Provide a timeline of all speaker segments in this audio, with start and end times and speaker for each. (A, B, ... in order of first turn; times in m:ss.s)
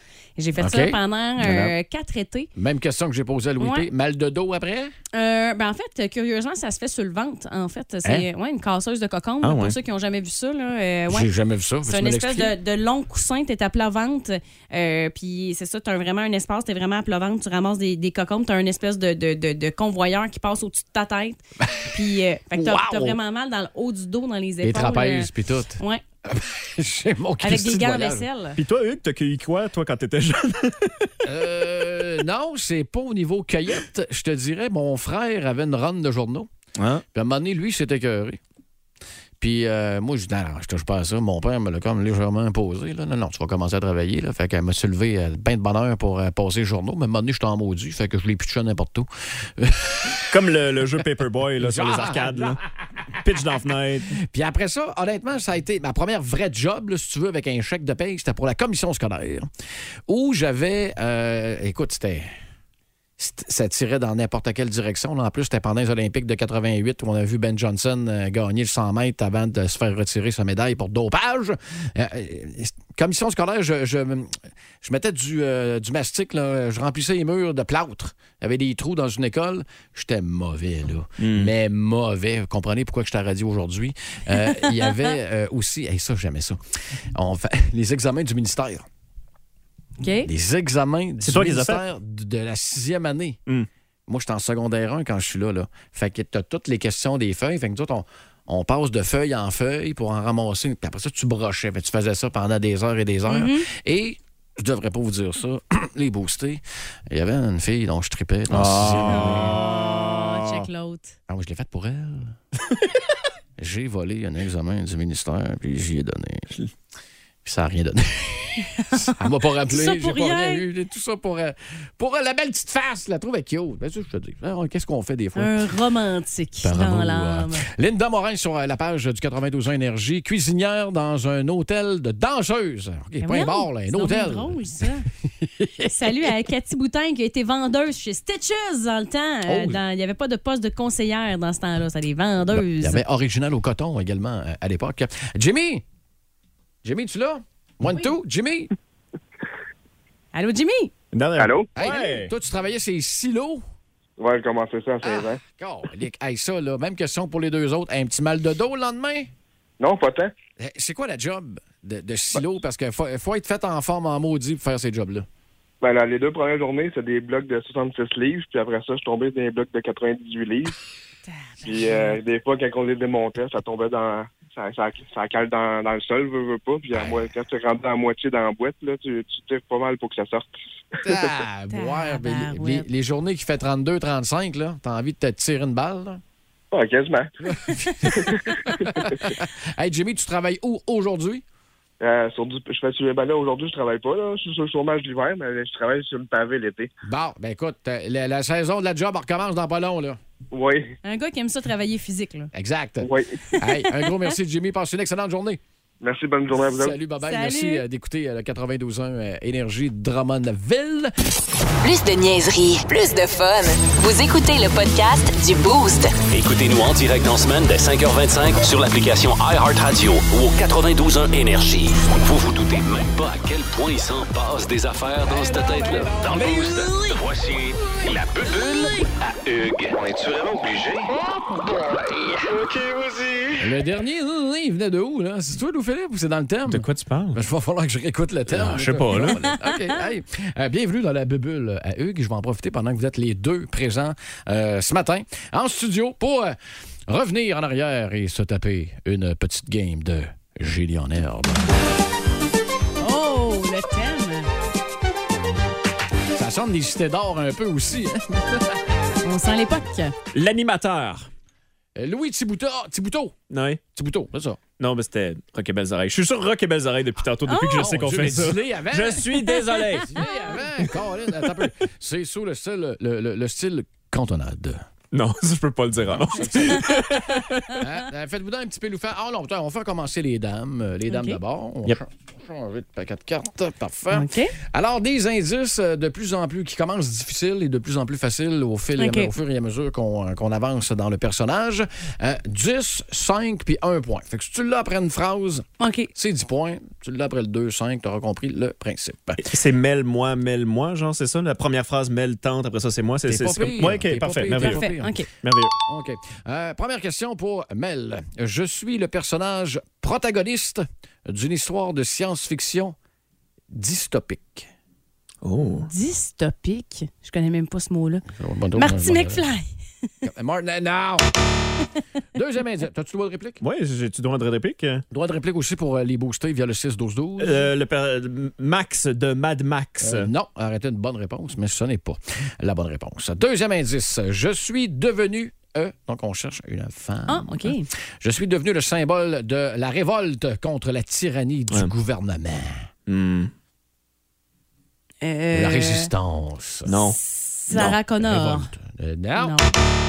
0:00.4-0:02.5 A
0:00.6-0:01.7 B
0:02.6-0:04.9 B
0:03.6-0:03.9 A
0:05.1-0:11.3 A
0:09.4-0:09.8 C
0:11.1-0:12.5 B
0:11.8-0:26.0 A
0:22.5-0:23.2 B
0:24.6-0:28.2 B
0:27.4-0:28.6 A
0:28.6-0:31.1 C
0:31.2-0:36.5 B
0:36.8-0:37.0 C
0:37.1-0:38.4 B
0:39.4-0:50.2 B
0:50.3-0:52.6 C
0:51.6-0:52.6 B
0:53.2-0:54.2 C
0:54.3-0:59.5 B
1:00.1-1:02.3 B
1:03.2-1:26.6 B
1:21.2-1:21.5 C
1:27.1-1:28.8 B
1:30.0-1:30.3 A
1:30.2-1:33.4 B
1:31.2-1:31.8 C
1:34.1-1:49.6 B
1:43.3-1:43.7 A
1:48.5-1:49.7 C
1:49.0-1:51.2 A
1:51.3-1:52.4 B
1:53.6-1:56.5 B
1:57.4-2:05.6 B
1:59.7-2:00.6 A
2:05.4-2:07.6 A
2:06.6-2:14.6 B
2:13.2-2:15.1 A
2:15.4-2:16.3 B
2:15.9-2:23.0 A
2:19.5-2:19.8 B
2:22.5-2:25.8 B
2:26.8-2:28.7 B
2:30.3-2:30.9 A
2:31.1-2:32.3 C
2:31.4-2:31.7 D
2:31.7-2:33.6 B
2:34.2-2:35.4 D
2:35.0-2:39.3 B
2:39.8-2:40.3 D
2:40.6-2:45.2 B
2:45.8-2:50.8 D
2:51.3-2:52.1 A
2:51.6-3:00.5 D
2:56.9-2:57.2 B
3:01.0-3:06.2 B
3:01.7-3:02.9 A
3:06.7-3:07.3 D
3:07.4-3:11.4 B
3:08.1-3:09.2 D
3:12.0-3:16.9 D
3:17.0-3:20.2 B
3:20.5-3:20.9 D
3:21.0-3:22.5 A
3:22.5-3:25.6 B
3:23.0-3:23.4 D
3:26.0-3:27.0 D
3:26.6-3:31.1 B
3:27.2-3:27.8 A
3:31.8-3:36.1 E
3:36.3-3:51.1 F
3:53.6-4:06.6 B
3:56.7-3:57.4 C
3:58.5-3:59.4 C
3:59.5-4:00.0 A
4:07.1-4:11.7 B
4:13.0-4:14.5 A
4:16.4-4:18.8 B
4:19.2-4:20.1 A
4:20.3-4:21.3 C
4:22.0-4:23.4 B
4:23.5-4:23.8 C
4:23.9-4:24.6 B
4:24.8-4:30.2 C
4:27.5-4:27.9 A
4:27.8-4:29.4 B
4:30.1-4:34.8 B
4:30.2-4:30.6 A
4:35.1-4:37.8 C
4:36.1-4:59.4 B
4:41.1-4:41.4 A
4:44.1-4:44.5 A
4:49.0-4:49.3 A
4:55.8-4:56.1 A
4:59.4-5:05.7 C
5:03.2-5:05.1 B
5:04.6-5:05.3 A
5:05.8-5:12.9 B
5:13.7-5:14.7 B
5:15.4-5:15.9 C
5:15.9-5:19.7 A
5:18.3-5:19.4 B
5:20.2-5:21.3 B
5:22.3-5:23.6 B
5:23.6-5:25.0 C
5:25.1-5:27.7 B
5:27.4-5:30.3 C
5:30.0-5:42.9 B
5:37.3-5:37.9 A
5:43.1-5:43.5 C
5:45.2-5:46.1 A
5:45.5-5:47.0 B
5:46.8-5:47.2 C
5:47.2-5:48.7 A
5:47.7-5:48.0 C
5:48.2-5:49.6 B
5:49.4-5:49.7 A